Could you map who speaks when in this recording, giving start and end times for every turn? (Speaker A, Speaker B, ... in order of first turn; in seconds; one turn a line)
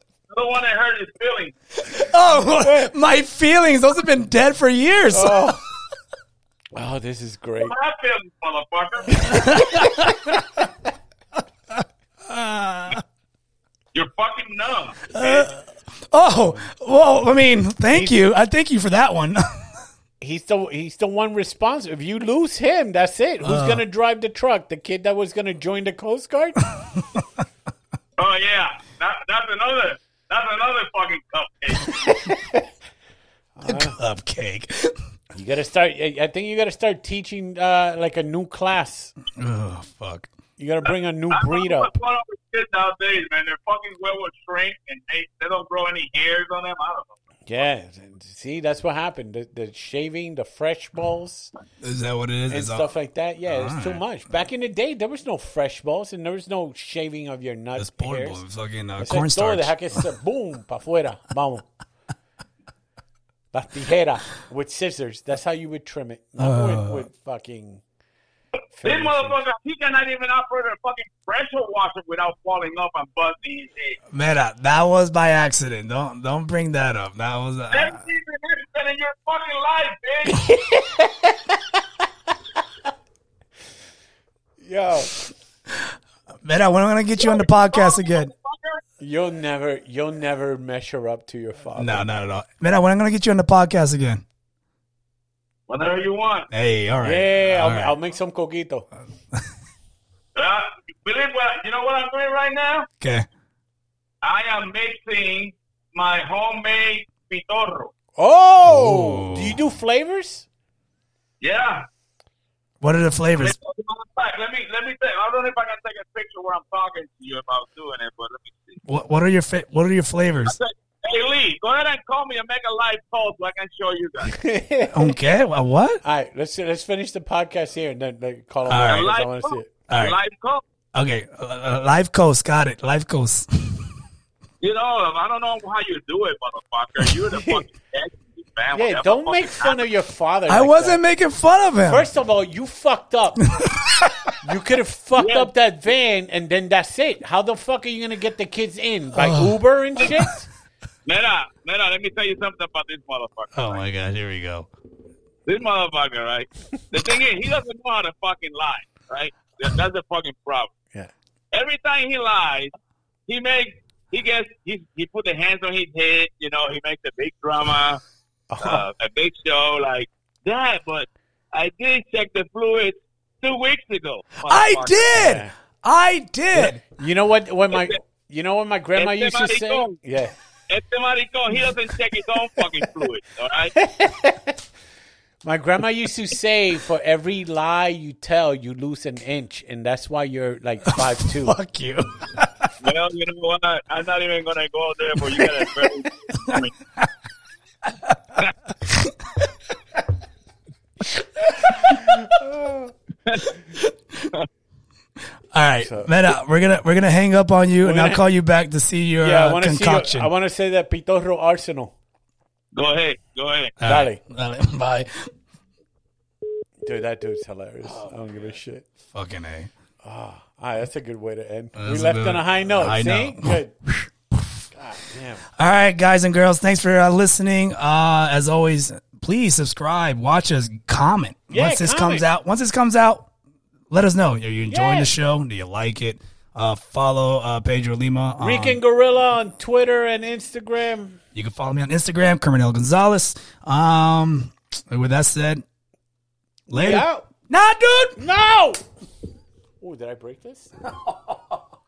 Speaker A: 0.3-1.5
Speaker B: 1.8-5.6
Speaker C: 2.4-2.9
Speaker C: 5.1-5.6
Speaker C: 6.7-7.7
Speaker A: 7.6-9.7
Speaker C: 9.1-10.4
Speaker B: 9.3-10.3
Speaker B: 11.7-13.0
Speaker A: 13.9-15.5
Speaker B: 15.1-19.7
Speaker C: 17.9-18.2
Speaker C: 20.2-26.6
Speaker B: 23.4-23.8
Speaker A: 28.2-32.0
Speaker C: 32.0-32.6
Speaker C: 33.6-34.0
Speaker B: 33.6-35.0
Speaker C: 35.3-39.1
Speaker B: 39.3-40.3
Speaker C: 40.6-41.9
Speaker A: 41.3-47.1
Speaker C: 47.5-51.5
Speaker B: 51.8-52.9
Speaker C: 52.5-58.4
Speaker B: 53.5-54.0
Speaker B: 57.8-60.0
Speaker C: 59.0-61.7
Speaker C: 63.5-67.8
Speaker B: 66.4-67.1
Speaker C: 68.7-69.4
Speaker A: 68.8-74.0
Speaker B: 74.1-78.0
Speaker A: 77.7-80.5
Speaker C: 80.3-81.8
Speaker C: 84.6-85.2
Speaker B: 85.7-88.3
Speaker A: 87.2-88.8
Speaker C: 89.0-92.1
Speaker B: 91.8-94.2
Speaker A: 95.7-96.5
Speaker B: 96.5-98.0
Speaker C: 97.0-98.9
Speaker A: 100.3-102.9
Speaker B: 103.0-103.3
Speaker A: 104.2-107.9
Speaker C: 108.2-110.5
Speaker B: 108.6-109.6
Speaker A: 111.4-111.8
Speaker B: 112.8-113.6
Speaker A: 113.4-118.8
Speaker B: 118.9-120.6
Speaker A: 120.4-124.4
Speaker C: 124.2-125.2
Speaker B: 124.9-126.0
Speaker C: 126.0-129.7
Speaker B: 128.7-129.1
Speaker A: 128.9-130.6
Speaker B: 129.9-130.2
Speaker B: 130.9-133.9
Speaker A: 134.6-139.9
Speaker C: 137.3-137.6
Speaker C: 138.7-141.0
Speaker B: 140.5-142.1
Speaker C: 141.8-143.5
Speaker B: 143.5-144.1
Speaker C: 144.4-150.5
Speaker A: 145.2-145.5
Speaker B: 149.1-150.3
Speaker A: 151.0-153.8
Speaker B: 153.5-154.7
Speaker A: 155.4-160.7
Speaker A: 161.5-162.7
Speaker A: 163.3-168.0
Speaker C: 168.5-168.9
Speaker A: 168.6-175.4
Speaker B: 174.4-176.8
Speaker C: 175.1-175.5
Speaker C: 176.5-180.4
Speaker A: 177.7-178.0
Speaker A: 178.9-180.0
Speaker A: 180.7-183.8
Speaker C: 183.8-184.6
Speaker C: 185.4-191.6
Speaker B: 190.9-192.7
Speaker A: 192.8-196.7
Speaker B: 195.2-197.1
Speaker B: 197.9-198.2
Speaker B: 201.5-202.2
Speaker C: 201.9-202.9
Speaker A: 203.3-203.5
Speaker B: 203.8-204.3
Speaker B: 205.5-210.3
Speaker C: 205.8-206.1
Speaker C: 207.8-208.2
Speaker C: 209.2-211.9
Speaker A: 212.7-213.7
Speaker B: 213.8-215.3
Speaker C: 213.8-214.2
Speaker C: 216.8-218.9
Speaker B: 217.9-218.1
Speaker B: 219.0-219.7
Speaker C: 220.0-223.7
Speaker B: 221.8-224.6
Speaker C: 224.7-225.4
Speaker B: 225.6-233.3
Speaker C: 231.5-232.3
Speaker B: 233.9-238.8
Speaker C: 234.7-235.1
Speaker C: 238.4-241.2
Speaker B: 241.3-245.6
Speaker B: 246.7-248.2
Speaker C: 246.7-247.2
Speaker C: 248.2-248.8
Speaker C: 249.8-250.8
Speaker B: 250.8-251.6